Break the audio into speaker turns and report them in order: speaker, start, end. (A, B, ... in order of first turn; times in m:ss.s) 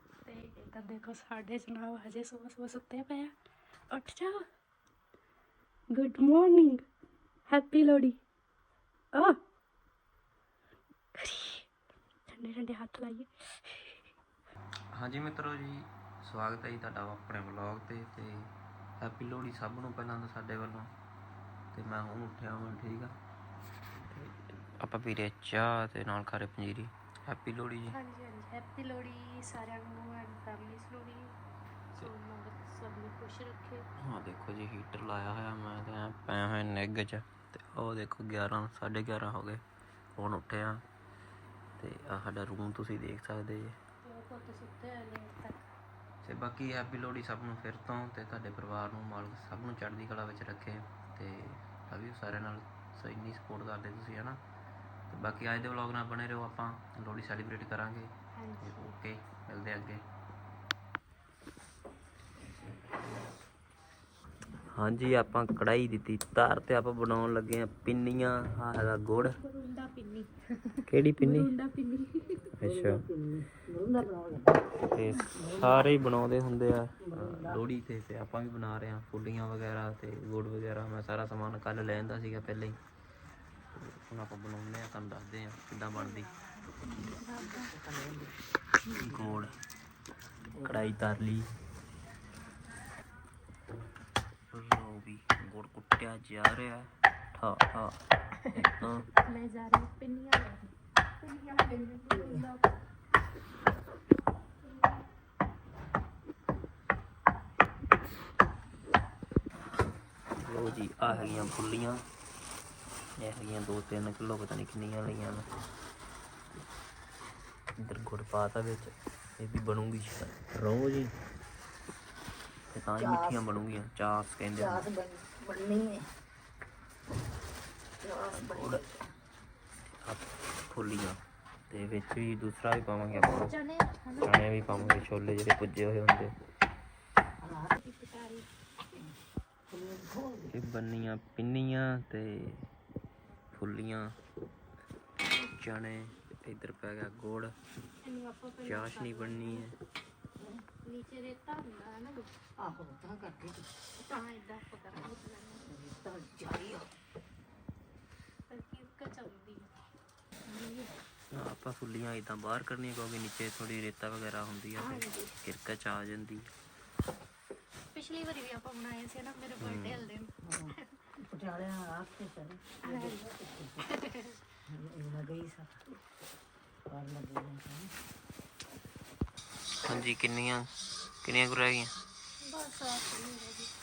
0:00.2-0:03.3 A
0:03.9-0:04.4 A
0:05.9-0:06.8 A
0:07.5-0:08.2 A
0:11.2-0:11.6 A
0:12.3-0:14.0 A
0:14.9-0:20.9 B
0:21.7-0:23.1 B
0:24.0-0:28.0 B
0:27.9-0:31.3 A
0:31.9-0:33.8 A
0:34.0-0:39.6 B
0:40.2-0:40.8 B
0:41.8-0:43.8 B
0:44.0-0:45.7 A
0:46.2-0:54.4 B
0:55.1-1:00.0 B
0:58.3-0:58.9 A
1:04.7-1:09.4 B
1:09.4-1:12.5 A
1:10.9-1:11.5 B
1:12.6-1:13.0 B
1:12.6-1:14.8 C
1:14.9-1:22.8 B
1:15.4-1:15.9 C
1:17.2-1:17.6 C
1:23.7-1:26.3 B
1:26.8-1:27.7 A
1:27.9-1:28.1 C
1:28.9-1:29.6 B
1:30.6-1:31.5 B
1:34.5-1:38.0 B
1:38.5-1:39.1 B
1:39.2-1:40.7 A
1:41.2-1:42.6 A
1:50.4-1:52.0 B
1:53.2-1:55.4 B
1:57.8-2:01.1 B
2:02.7-2:04.9 B
2:03.0-2:03.4 C
2:04.6-2:06.1 C
2:08.0-2:08.8 C
2:08.3-2:08.8 B
2:10.0-2:13.6 B
2:13.2-2:14.7 A
2:14.2-2:16.3 B
2:17.7-2:18.4 A
2:19.7-2:20.5 C
2:20.5-2:22.7 B
2:23.5-2:24.1 B
2:25.4-2:27.5 B
2:28.0-2:29.6 A
2:28.6-2:29.7 B
2:30.8-2:32.3 A
2:32.6-2:33.6 C
2:34.0-2:35.7 A
2:35.7-2:36.8 C
2:38.5-2:39.7 A
2:40.5-2:40.9 A
2:41.3-2:46.5 B
2:44.8-2:45.3 A
2:47.9-2:50.9 A
2:49.6-2:50.0 B
2:51.2-2:53.7 C
2:52.8-2:54.4 A
2:54.8-2:55.6 C
2:56.9-2:57.9 C
2:59.8-3:00.7 B
3:01.2-3:01.9 B
3:02.4-3:03.7 A